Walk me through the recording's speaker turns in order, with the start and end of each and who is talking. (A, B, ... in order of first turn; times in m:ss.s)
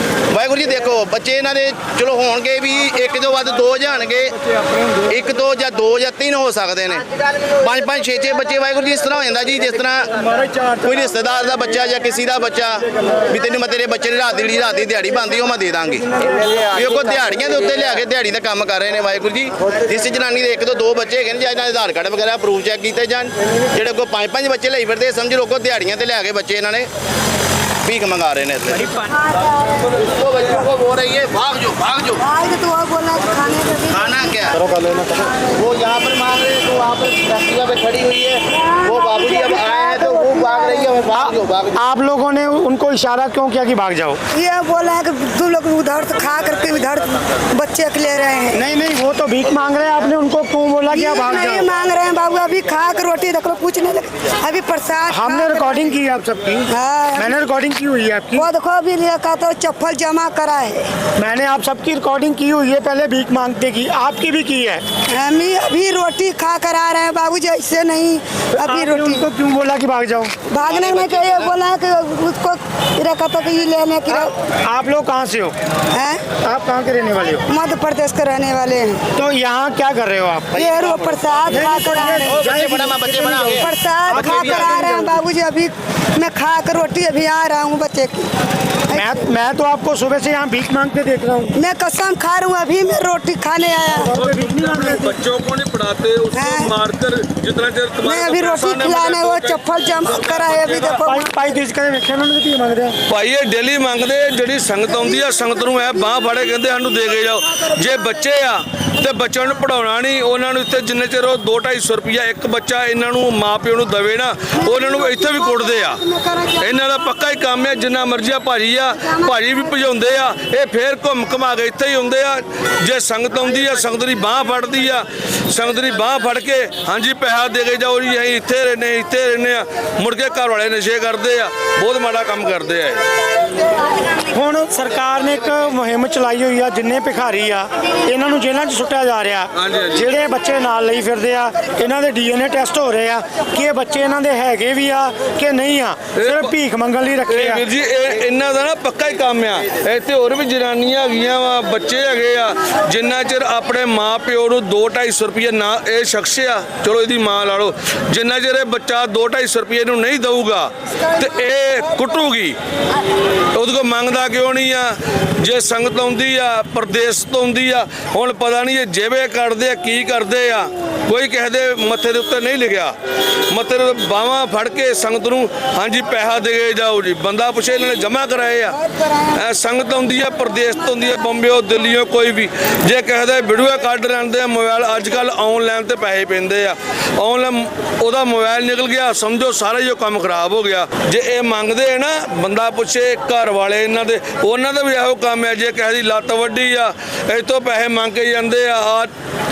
0:00.3-0:07.0 A
0:07.6-0:26.9 A
0:27.8-0:29.0 A
0:29.0-0:29.8 B
0:29.9-0:32.2 A
0:32.2-0:34.4 B
0:33.9-0:34.7 A
0:35.4-0:41.8 A
0:38.5-0:41.0 B
0:41.1-0:44.2 C
0:44.3-0:48.6 B
0:48.5-0:51.7 C
0:50.9-0:55.9 B
0:55.1-0:58.5 C
0:56.7-0:57.3 B
0:58.4-1:00.9 B
1:01.2-1:04.8 C
1:05.1-1:09.2 B
1:08.6-1:10.5 C
1:10.5-1:14.3 B
1:10.8-1:11.3 A
1:14.1-1:15.5 C
1:15.9-1:16.2 B
1:16.4-1:17.4 C
1:17.5-1:19.0 B
1:19.2-1:20.7 C
1:20.5-1:24.9 A
1:20.6-1:22.3 B
1:21.5-1:25.1 C
1:23.5-1:28.3 B
1:28.9-1:31.5 C
1:31.6-1:34.1 B
1:34.0-1:35.0 C
1:34.1-1:41.0 D
1:36.3-1:36.8 B
1:38.0-1:41.3 B
1:41.0-1:43.0 C
1:43.1-1:56.0 D
1:54.6-1:56.7 B
1:56.6-2:13.0 D
1:58.9-1:59.9 B
2:14.3-2:27.7 C
2:19.6-2:20.1 D
2:26.2-2:26.5 D
2:27.3-2:42.6 D
2:43.5-2:52.9 D
2:53.5-2:58.8 D
2:59.3-3:19.1 D